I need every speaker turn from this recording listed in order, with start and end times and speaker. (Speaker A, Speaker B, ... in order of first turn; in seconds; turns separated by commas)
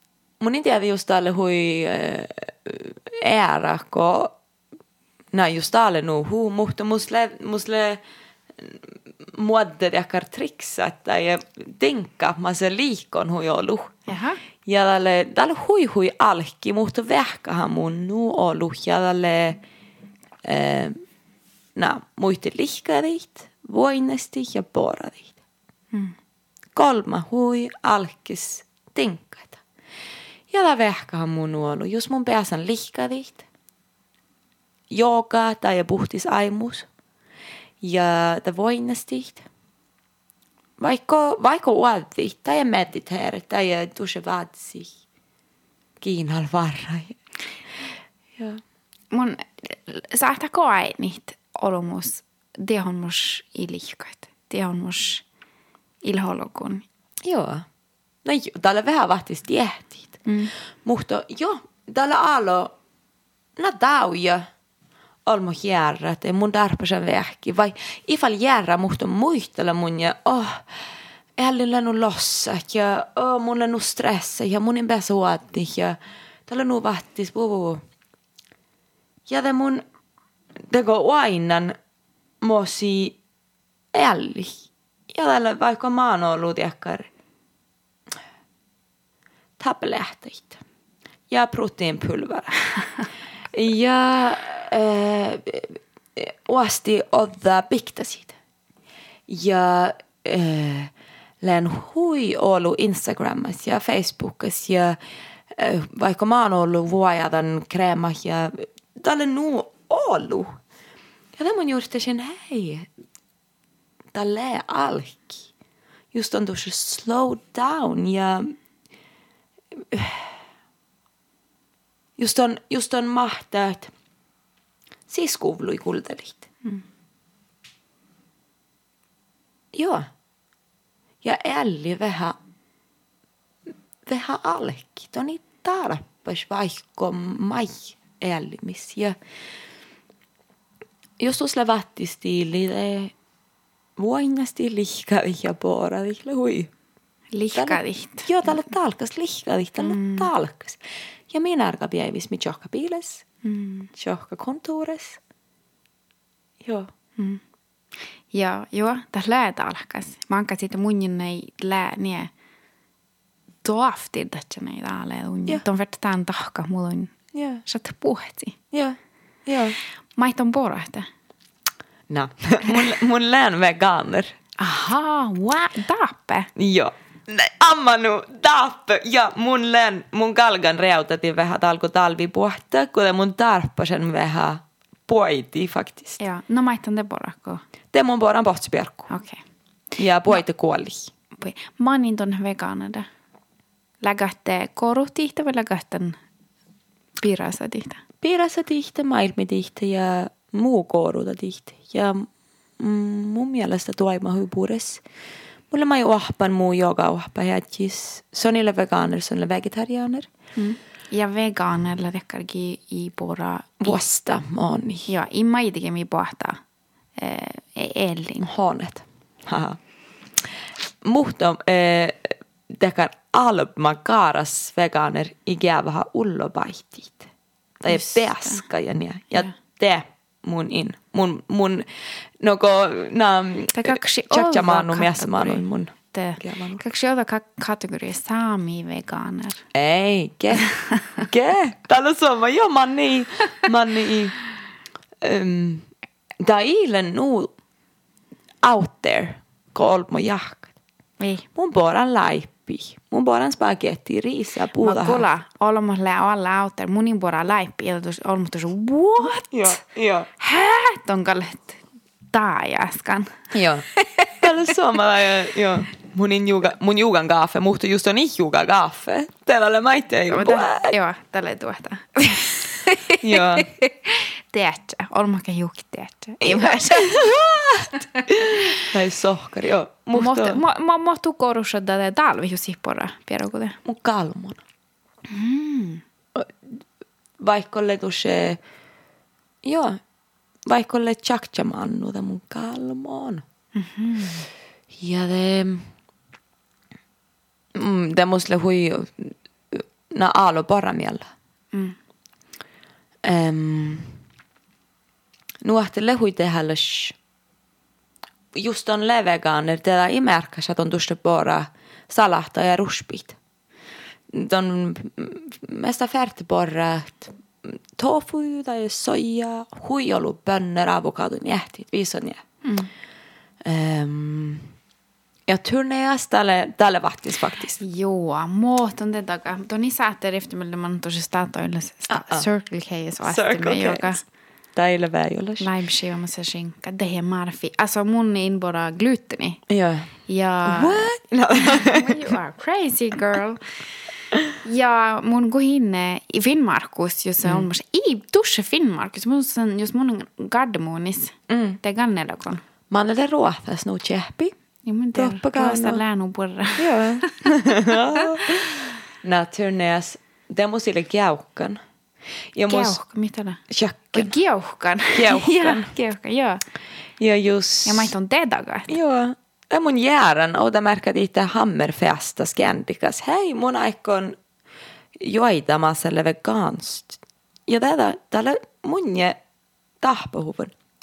Speaker A: 0.4-4.3, Speaker A: 5.3-8.0, Speaker A: 8.6-14.0, Speaker B: 14.1-14.4, Speaker A: 14.6-19.6, Speaker A: 20.4-21.0, Speaker A: 21.7-25.3, Speaker A: 26.7-29.6, Speaker A: 30.5-33.4, Speaker A: 34.9-36.9, Speaker A: 37.8-39.5, Speaker A: 40.8-45.0, Speaker A: 46.0-47.2, Speaker B: 49.1-55.2, Speaker B: 56.0-56.8, Speaker A: 57.2-57.6, Speaker A: 58.2-60.2, Speaker B: 60.2-60.5, Speaker A: 60.8-62.7, Speaker A: 63.6-64.5, Speaker A: 65.2-70.8, Speaker A: 71.4-77.8, Speaker A: 79.3-79.8, Speaker A: 80.7-81.8, Speaker A: 82.4-83.2, Speaker A: 83.9-87.1, Speaker A: 89.6-90.6, Speaker A: 91.3-92.5, Speaker A: 93.5-98.3, Speaker A: 99.3-105.0, Speaker A: 105.5-110.6, Speaker A: 111.3-112.9, Speaker A: 114.1-115.5, Speaker A: 116.1-118.5, Speaker A: 119.7-120.4, Speaker A: 122.2-123.9, Speaker A: 125.1-126.5, Speaker A: 129.7-130.1, Speaker A: 131.2-132.4, Speaker A: 134.0-139.2, Speaker A: 141.2-143.1, Speaker A: 144.0-146.7, Speaker B: 147.3-148.3, Speaker A: 147.5-153.2, Speaker B: 149.8-150.3, Speaker B: 153.4-153.9, Speaker A: 154.0-155.2, Speaker A: 156.6-156.9, Speaker B: 158.3-162.3, Speaker B: 163.6-168.6, Speaker A: 167.3-167.6, Speaker A: 168.7-169.8, Speaker B: 170.2-171.1, Speaker A: 172.1-174.3, Speaker B: 174.6-176.5, Speaker A: 176.6-186.2, Speaker B: 186.2-187.6, Speaker A: 187.9-189.1, Speaker B: 189.1-189.4, Speaker A: 190.0-191.1, Speaker B: 191.4-193.1, Speaker B: 194.0-196.2, Speaker B: 197.2-198.0, Speaker A: 198.2-202.3, Speaker A: 202.8-205.0, Speaker A: 205.7-210.3, Speaker B: 210.6-214.0, Speaker A: 213.8-215.1, Speaker B: 215.1-216.6, Speaker B: 217.2-218.5, Speaker A: 218.4-219.8, Speaker A: 221.0-236.8, Speaker B: 227.9-228.6, Speaker B: 233.7-239.6, Speaker A: 239.7-244.3, Speaker A: 245.2-245.9, Speaker A: 246.4-247.5, Speaker A: 248.6-250.7, Speaker B: 251.2-251.4, Speaker A: 251.6-255.2, Speaker B: 254.8-259.8, Speaker A: 259.2-260.3, Speaker B: 260.4-261.8, Speaker B: 262.3-264.3, Speaker A: 263.5-263.9, Speaker A: 264.4-270.9, Speaker B: 270.3-277.3, Speaker A: 273.1-273.7, Speaker A: 276.4-280.6, Speaker B: 280.1-283.8, Speaker A: 283.8-284.6, Speaker B: 285.3-286.0, Speaker A: 286.3-286.7, Speaker A: 287.4-288.6, Speaker A: 289.6-290.0, Speaker A: 290.6-293.4, Speaker B: 293.8-294.5, Speaker A: 295.0-295.9, Speaker A: 297.7-301.3, Speaker A: 303.2-304.2, Speaker A: 305.6-307.1, Speaker A: 308.5-313.4, Speaker A: 314.3-322.4, Speaker B: 322.6-322.9, Speaker A: 323.6-324.7, Speaker A: 325.5-327.8, Speaker B: 327.8-334.2, Speaker A: 332.1-332.5, Speaker A: 333.2-334.2, Speaker A: 334.7-335.7, Speaker B: 335.6-339.6, Speaker A: 339.7-340.1, Speaker B: 340.3-343.6, Speaker A: 340.6-342.2, Speaker B: 344.6-352.6, Speaker A: 351.5-351.8, Speaker A: 352.9-354.5, Speaker B: 354.9-357.3, Speaker A: 355.1-356.0, Speaker A: 356.8-361.8, Speaker A: 362.5-363.0, Speaker B: 362.7-363.6, Speaker A: 363.7-364.3, Speaker B: 364.1-366.6, Speaker A: 365.1-365.9, Speaker A: 367.2-368.1, Speaker B: 367.9-368.9, Speaker A: 368.9-374.4, Speaker A: 375.1-379.4, Speaker A: 380.0-380.7